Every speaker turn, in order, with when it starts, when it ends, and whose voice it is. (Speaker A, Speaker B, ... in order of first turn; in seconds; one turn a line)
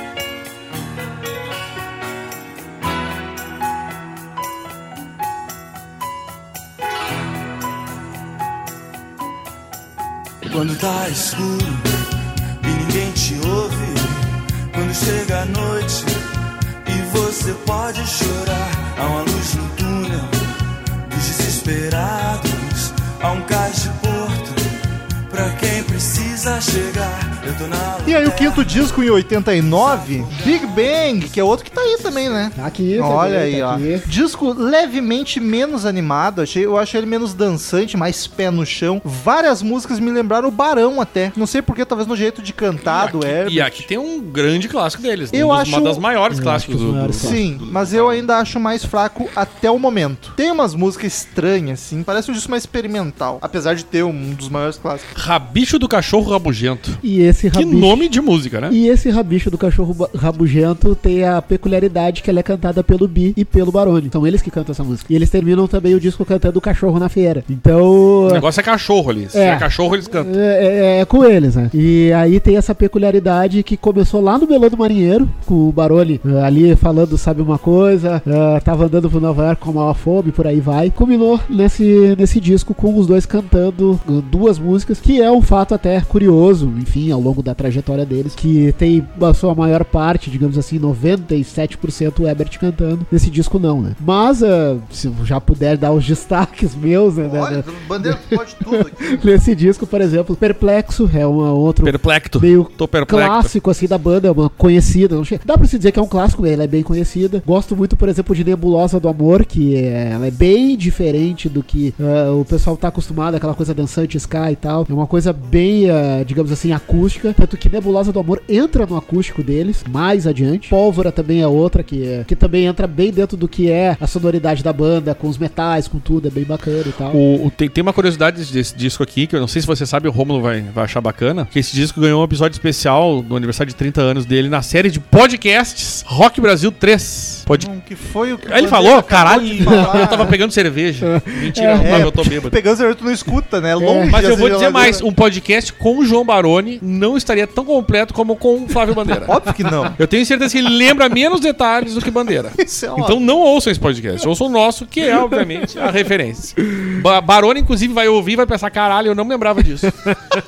Speaker A: 10.4-11.9
Speaker A: 12.6-16.2
Speaker A: 16.8-20.4
Speaker A: 21.0-24.7
Speaker A: 25.3-28.8
Speaker B: 28.0-43.9
Speaker A: 29.8-30.4
Speaker C: 32.5-34.1
Speaker D: 42.8-48.3
Speaker B: 45.3-46.0
Speaker C: 46.3-47.4
Speaker B: 47.2-55.1
Speaker D: 55.1-57.0
Speaker C: 57.0-58.1
Speaker D: 57.5-58.8
Speaker C: 58.7-68.5
Speaker D: 68.2-70.4
Speaker C: 69.3-127.2
Speaker B: 97.2-99.2
Speaker D: 101.8-103.5
Speaker D: 127.1-137.7
Speaker B: 137.5-140.3
Speaker D: 138.4-142.6
Speaker C: 139.7-140.3
Speaker C: 141.0-142.1
Speaker B: 141.8-145.0
Speaker C: 143.8-144.1
Speaker D: 144.1-149.3
Speaker B: 149.2-150.0
Speaker D: 150.0-159.9
Speaker B: 152.6-153.2
Speaker C: 159.9-160.2